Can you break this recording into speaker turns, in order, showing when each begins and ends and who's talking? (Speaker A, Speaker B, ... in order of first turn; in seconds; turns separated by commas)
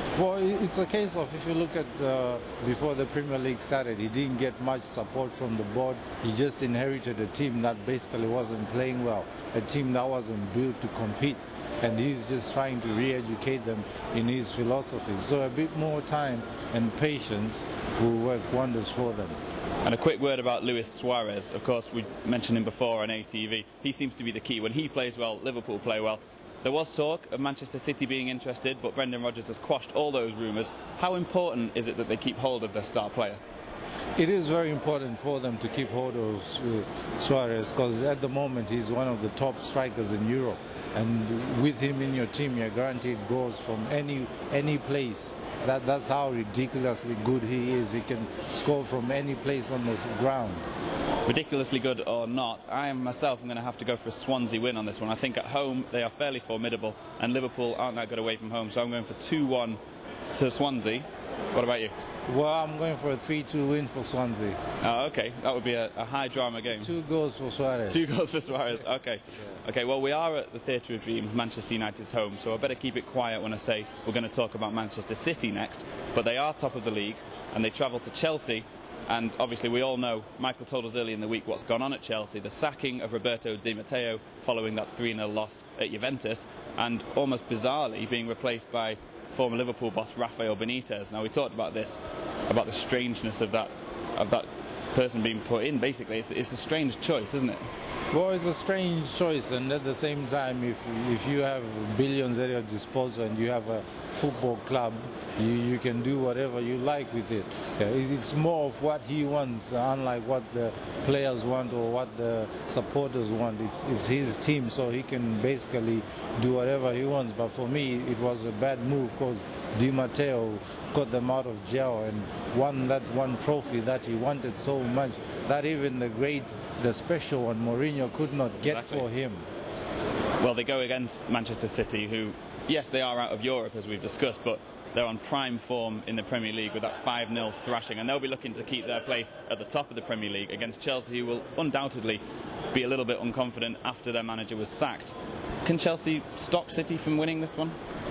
Speaker A: 0.1-19.4, Speaker B: 19.8-33.4, Speaker A: 34.2-50.6, Speaker B: 51.2-59.8, Speaker B: 60.3-61.9, Speaker A: 62.3-64.6, Speaker B: 64.8-66.9, Speaker A: 66.8-68.0, Speaker B: 67.9-97.6, Speaker A: 98.1-129.4, Speaker B: 128.6-129.0, Speaker B: 130.4-147.8